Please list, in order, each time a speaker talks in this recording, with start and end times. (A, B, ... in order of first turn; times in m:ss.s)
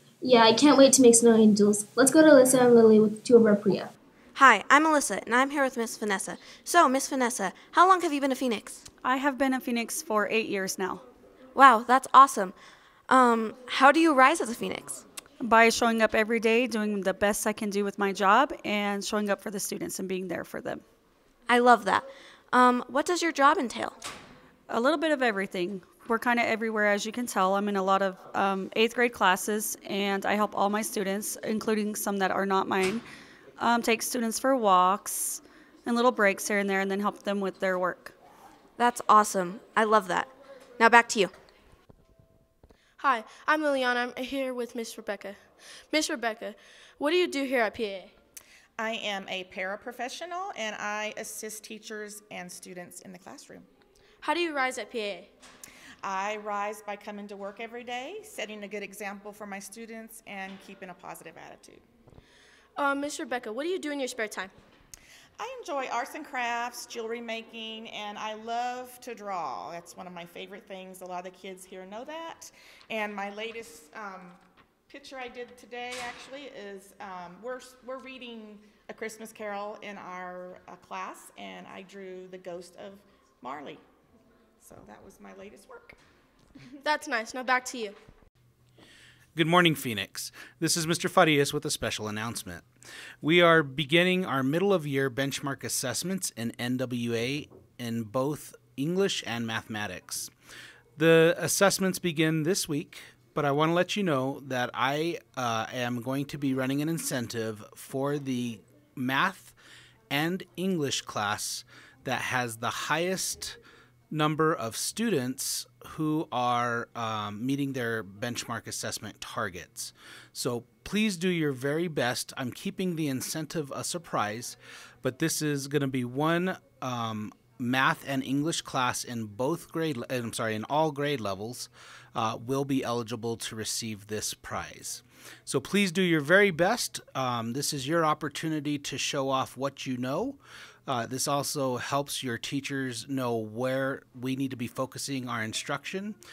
0:00.2-0:03.9 A
0:04.4-0:08.8 B
0:09.0-0:11.0 C
0:11.5-0:12.5 B
0:13.1-0:15.0 B
0:15.4-0:20.8 C
0:21.5-0:24.0 B
0:24.7-0:33.0 C
0:33.6-0:38.1 C
0:38.8-0:41.3 B
0:43.0-0:48.1 D
0:48.8-0:53.7 E
0:54.2-0:55.3 D
0:56.0-1:01.8 E
1:02.8-1:04.5 D
1:05.4-1:14.4 E
1:14.9-1:23.8 E
1:24.6-1:26.0 E
1:26.8-1:28.0 D
1:29.3-1:32.6 F
1:33.2-1:40.3 F
1:41.0-1:49.6 F
1:50.1-1:53.6 F
1:54.1-2:26.2 F